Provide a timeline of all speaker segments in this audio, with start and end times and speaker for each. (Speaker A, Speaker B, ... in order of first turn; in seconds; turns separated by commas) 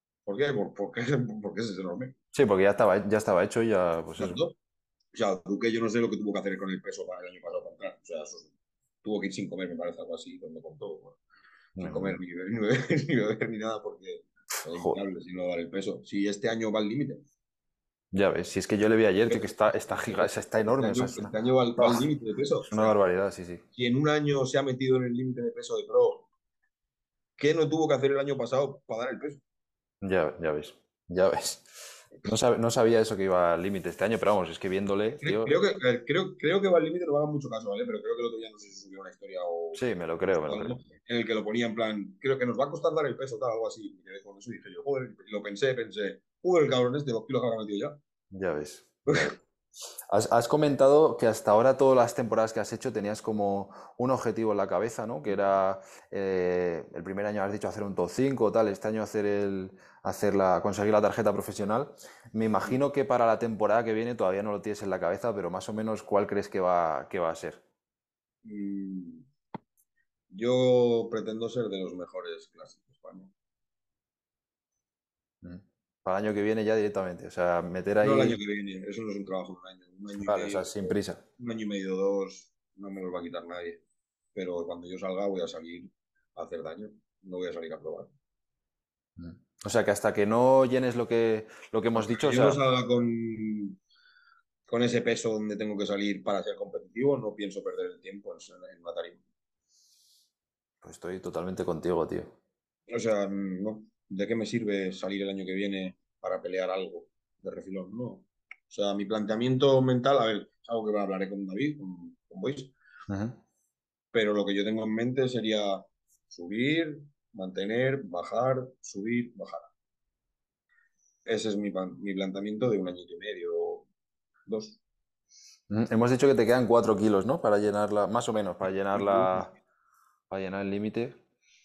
Speaker A: 0.3-2.1, Speaker B: 2.3-4.4, Speaker A: 4.2-4.6, Speaker A: 5.1-8.5, Speaker A: 9.0-11.2, Speaker B: 11.8-12.2, Speaker A: 11.8-17.2, Speaker B: 18.1-22.1, Speaker A: 19.3-23.0, Speaker B: 22.7-23.6, Speaker A: 23.7-26.3, Speaker A: 27.4-29.4, Speaker B: 30.0-35.5, Speaker A: 35.2-39.8, Speaker B: 39.8-40.8, Speaker A: 40.4-48.0, Speaker B: 48.3-49.4, Speaker A: 49.1-49.4, Speaker B: 50.1-67.6, Speaker A: 68.4-69.3, Speaker A: 70.3-73.3, Speaker B: 75.4-78.4, Speaker A: 78.0-83.8, Speaker B: 80.2-81.2, Speaker A: 84.3-88.1, Speaker B: 89.2-92.6, Speaker A: 92.0-93.8, Speaker A: 94.7-99.2, Speaker B: 100.8-102.3, Speaker A: 102.9-112.7, Speaker B: 113.1-113.4, Speaker A: 114.1-119.7, Speaker A: 121.3-123.9, Speaker A: 124.5-124.8, Speaker B: 125.7-129.5, Speaker A: 128.9-129.5, Speaker B: 130.3-131.2